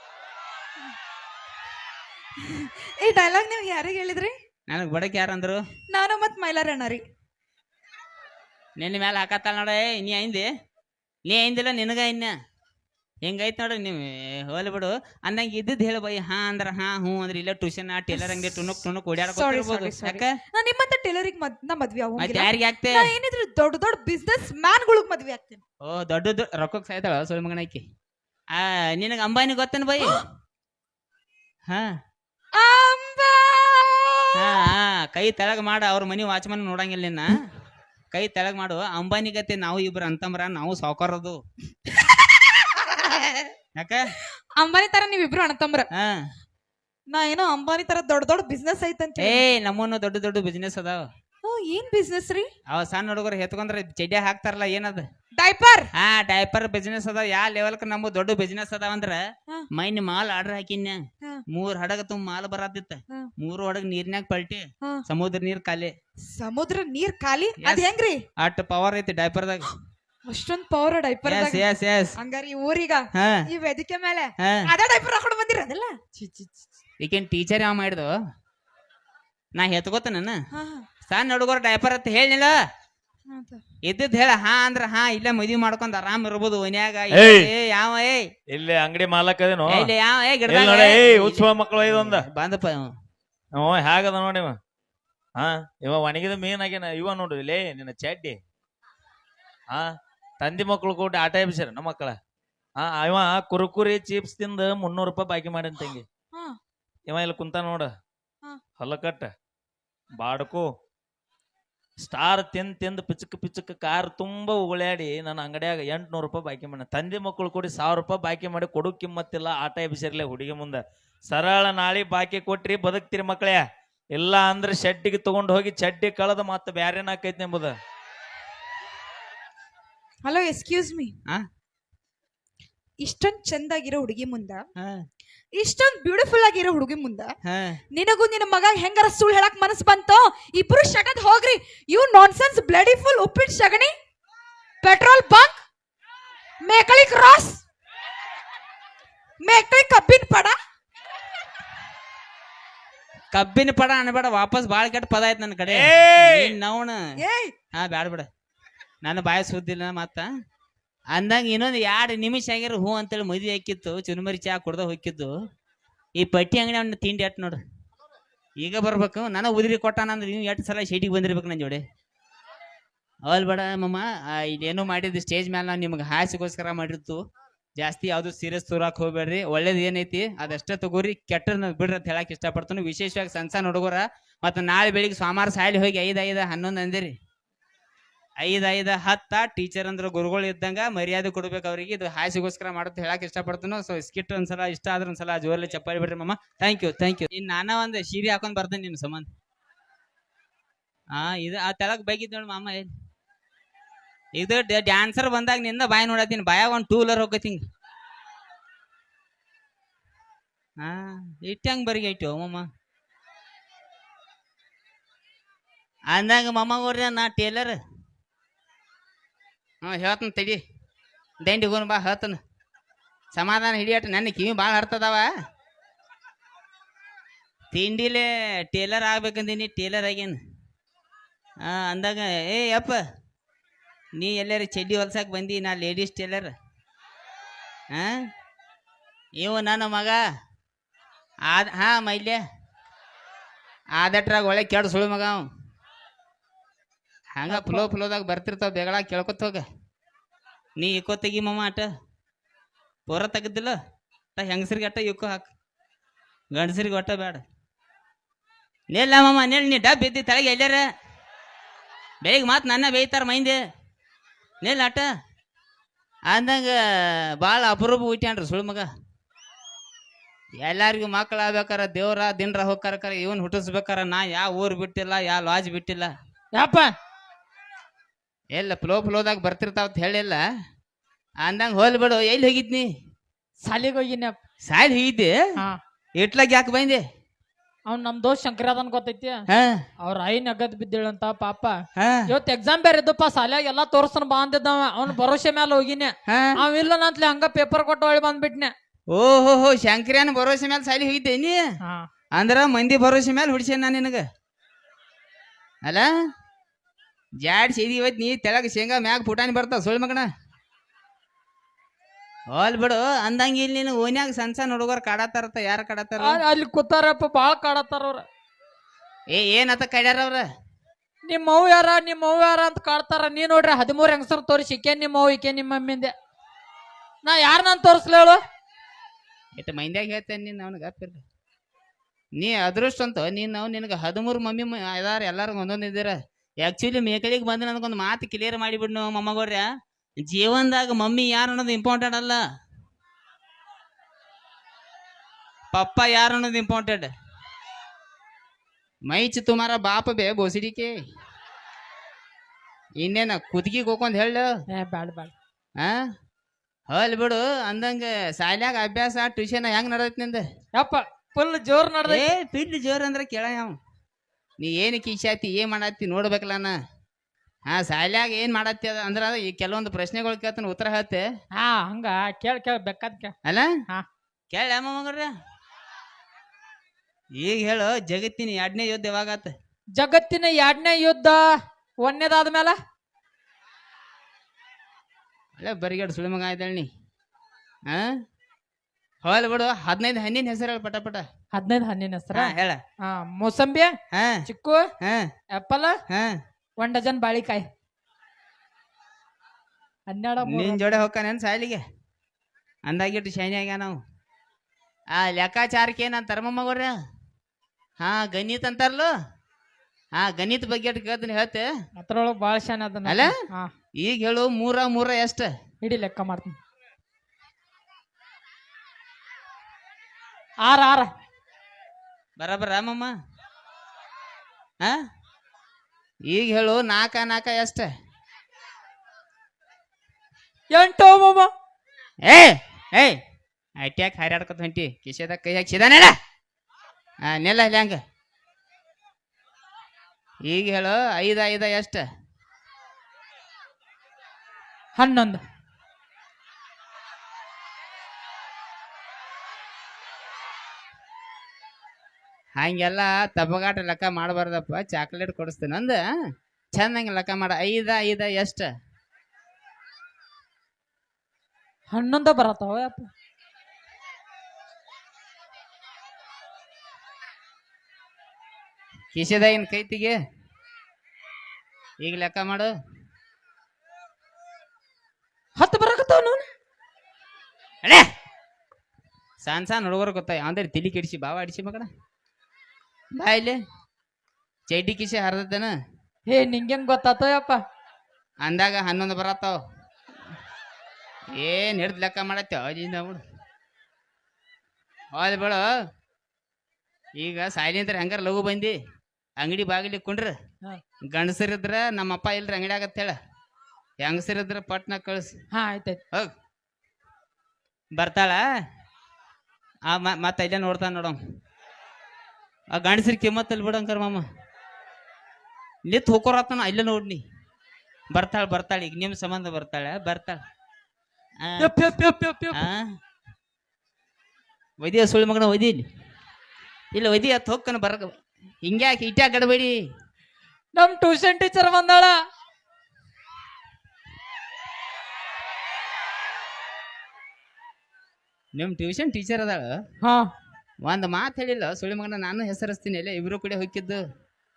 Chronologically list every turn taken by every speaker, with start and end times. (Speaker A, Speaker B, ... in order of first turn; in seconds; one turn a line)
Speaker A: 2.4-4.3
Speaker B: 4.7-5.6
Speaker A: 5.9-7.0
Speaker B: 8.8-10.5
Speaker B: 11.3-12.3
Speaker B: 13.2-20.3
Speaker A: 18.1-18.7
Speaker A: 19.2-25.6
Speaker B: 22.2-23.1
Speaker B: 25.9-27.8
Speaker B: 28.6-30.2
Speaker A: 32.5-34.5
Speaker B: 34.4-37.4
Speaker B: 38.1-41.4
Speaker B: 43.8-44.1
Speaker A: 44.6-45.9
Speaker B: 45.9-46.2
Speaker A: 47.1-49.4
Speaker B: 49.2-51.1
Speaker A: 51.4-52.5
Speaker B: 52.7-55.0
Speaker A: 55.4-55.9
Speaker B: 56.0-59.2
Speaker B: 59.8-61.0
Speaker B: 61.5-65.9
Speaker A: 66.3-68.2
Speaker B: 67.6-67.9
Speaker B: 68.4-69.7
Speaker A: 70.3-71.7
Speaker B: 71.3-72.2
Speaker A: 72.2-76.0
Speaker B: 73.2-73.4
Speaker B: 74.4-74.7
Speaker C: 76.2-76.5
Speaker B: 77.0-78.1
Speaker B: 79.6-80.4
Speaker A: 80.5-80.9
Speaker B: 81.1-82.6
Speaker A: 83.3-83.6
Speaker B: 83.9-88.3
Speaker D: 87.1-87.5
Speaker D: 88.5-89.9
Speaker B: 89.7-92.9
Speaker D: 90.5-92.2
Speaker D: 93.5-94.6
Speaker D: 95.4-98.4
Speaker D: 100.4-102.2
Speaker D: 102.8-106.0
Speaker D: 107.1-107.9
Speaker D: 108.8-109.3
Speaker D: 110.2-110.7
Speaker D: 112.0-123.6
Speaker D: 124.1-127.7
Speaker A: 130.2-131.1
Speaker A: 133.0-134.6
Speaker A: 135.6-137.3
Speaker B: 137.5-137.8
Speaker A: 137.9-143.9
Speaker A: 144.8-145.6
Speaker A: 146.6-147.6
Speaker A: 149.4-150.6
Speaker B: 153.3-157.0
Speaker D: 155.7-156.5
Speaker A: 157.2-157.5
Speaker B: 157.7-158.3
Speaker B: 159.0-160.3
Speaker B: 161.1-165.3
Speaker B: 166.2-167.6
Speaker B: 168.6-171.8
Speaker B: 173.3-177.2
Speaker B: 177.8-187.1
Speaker B: 188.4-199.3
Speaker B: 201.1-202.9
Speaker B: 204.3-207.6
Speaker B: 210.8-212.7
Speaker B: 216.1-217.8
Speaker B: 219.8-220.6
Speaker B: 221.4-222.4
Speaker B: 223.3-225.3
Speaker B: 227.7-230.4
Speaker B: 231.6-233.0
Speaker B: 234.2-236.5
Speaker B: 237.9-238.2
Speaker B: 239.4-240.2
Speaker B: 241.5-242.4
Speaker B: 244.0-245.4
Speaker B: 247.4-249.6
Speaker C: 247.5-247.9
Speaker B: 250.8-251.9
Speaker B: 253.1-253.8
Speaker B: 254.4-255.5
Speaker B: 256.5-257.4
Speaker B: 258.9-260.9
Speaker B: 262.2-263.6
Speaker B: 264.6-265.1
Speaker B: 266.3-268.9
Speaker B: 270.6-276.1
Speaker C: 276.5-276.9
Speaker B: 278.5-280.4
Speaker B: 281.4-282.9
Speaker C: 283.6-284.4
Speaker B: 284.7-285.4
Speaker B: 286.2-287.0
Speaker C: 287.9-289.4
Speaker B: 289.5-289.8
Speaker C: 290.0-291.8
Speaker B: 292.0-292.3
Speaker C: 292.3-298.7
Speaker B: 296.3-296.6
Speaker B: 299.1-301.6
Speaker B: 302.4-304.2
Speaker B: 307.4-310.3
Speaker B: 312.5-316.4
Speaker C: 316.2-318.2
Speaker B: 319.3-320.4
Speaker C: 321.3-326.1
Speaker C: 327.2-328.4
Speaker B: 329.6-331.2
Speaker B: 332.4-339.7
Speaker B: 340.3-342.4
Speaker B: 345.7-347.1
Speaker B: 349.1-350.9
Speaker B: 353.0-354.5
Speaker C: 354.7-355.3
Speaker B: 356.9-360.4
Speaker C: 360.8-362.3
Speaker B: 362.1-363.8
Speaker B: 364.6-366.8
Speaker B: 367.7-371.2
Speaker C: 371.6-373.3
Speaker B: 373.5-373.7
Speaker B: 374.5-375.3
Speaker B: 377.4-379.5
Speaker C: 380.0-381.4
Speaker C: 382.0-382.8
Speaker B: 385.6-386.9
Speaker B: 387.9-388.2
Speaker B: 389.2-391.2
Speaker C: 391.5-393.9
Speaker B: 392.3-392.8
Speaker B: 394.1-394.4
Speaker C: 394.5-394.8
Speaker C: 395.5-395.9
Speaker B: 396.1-396.4
Speaker C: 396.8-397.6
Speaker C: 400.1-400.9
Speaker B: 400.4-401.8
Speaker B: 402.9-404.0
Speaker B: 405.1-406.9
Speaker B: 408.0-409.1
Speaker B: 410.2-411.7
Speaker C: 412.0-413.7
Speaker B: 413.1-413.3
Speaker B: 414.0-415.5
Speaker C: 415.8-416.6
Speaker C: 420.6-421.1
Speaker B: 422.4-423.1
Speaker B: 426.3-427.9
Speaker C: 430.7-431.5
Speaker B: 432.2-433.2
Speaker B: 433.8-436.1
Speaker B: 437.3-438.0
Speaker B: 440.5-442.0
Speaker C: 445.0-445.4
Speaker B: 452.6-456.0
Speaker B: 456.7-458.7
Speaker C: 461.9-463.1
Speaker B: 469.1-470.2
Speaker B: 472.0-472.7
Speaker C: 475.6-476.4
Speaker B: 479.4-481.9
Speaker B: 483.2-483.6
Speaker B: 484.7-485.7
Speaker C: 486.3-487.6
Speaker B: 488.4-489.6
Speaker B: 491.4-493.2
Speaker B: 495.1-495.6
Speaker B: 497.2-498.8
Speaker B: 499.4-500.3
Speaker B: 501.1-503.1
Speaker B: 504.0-505.3
Speaker C: 505.5-506.0
Speaker B: 508.0-508.4
Speaker B: 509.9-511.2
Speaker B: 512.7-514.2
Speaker B: 515.9-517.2
Speaker B: 518.1-520.4
Speaker B: 521.4-521.7
Speaker C: 521.6-522.6
Speaker B: 522.5-522.9
Speaker B: 524.8-525.8
Speaker B: 526.9-528.1
Speaker B: 528.6-529.8
Speaker C: 530.8-532.2
Speaker B: 538.5-539.8
Speaker B: 540.8-544.0